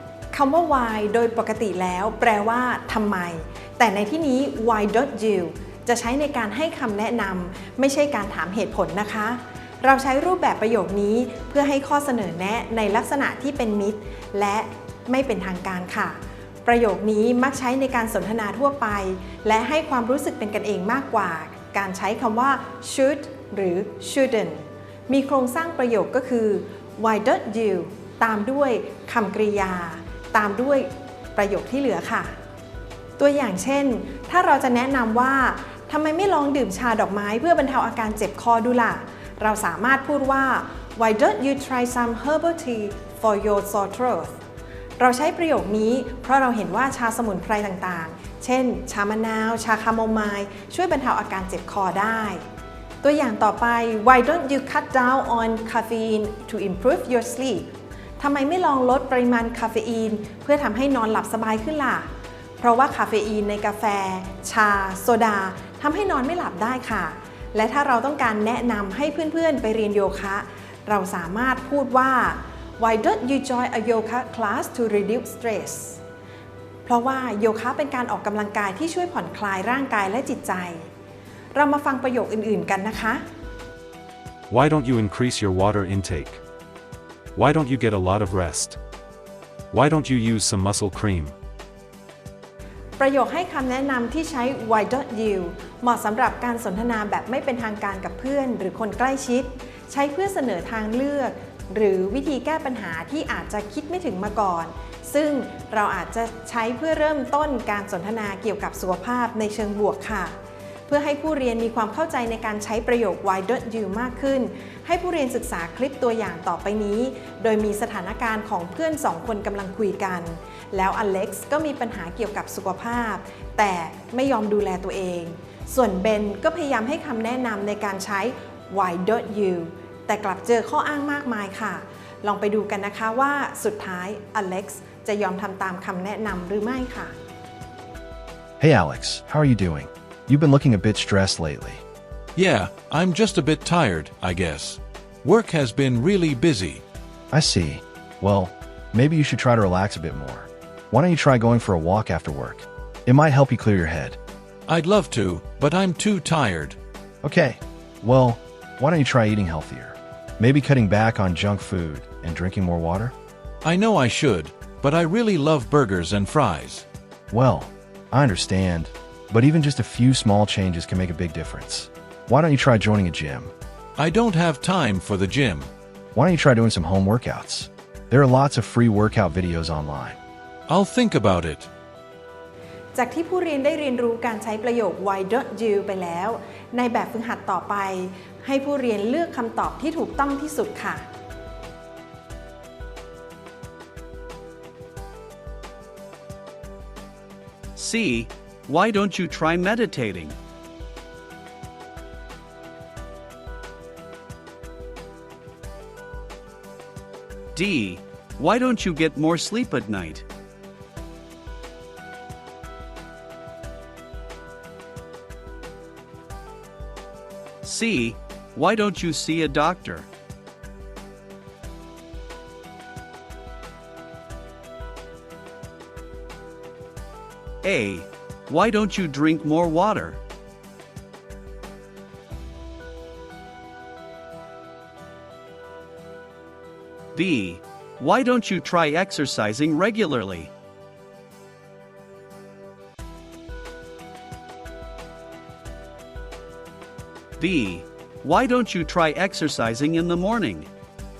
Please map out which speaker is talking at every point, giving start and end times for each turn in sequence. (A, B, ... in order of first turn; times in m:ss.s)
0:00.3-0:32.3 A
0:33.2-0:44.4 A
0:45.0-0:52.4 A
0:53.0-0:57.7 A
0:58.2-1:02.1 A
1:02.6-1:16.0 A
1:16.8-1:20.9 A
1:21.5-1:23.2 A
1:24.5-1:26.4 B
1:27.3-1:28.8 B
1:29.7-1:31.3 B
1:33.0-1:50.3 A
1:50.9-2:17.1 A
2:18.6-2:21.8 C
2:22.4-2:26.8 D
2:27.3-2:34.2 C
2:34.7-2:36.8 D
2:37.2-2:43.1 C
2:43.6-2:46.8 D
2:47.3-2:53.5 C
2:54.0-2:55.7 D
2:56.1-3:00.2 C
3:00.7-3:01.7 D
3:02.9-3:11.0 A
3:17.8-3:20.4 E
3:27.5-3:30.2 E
3:37.6-3:40.1 E
3:47.6-3:50.2 E
3:57.2-4:00.5 E
4:07.4-4:10.7 E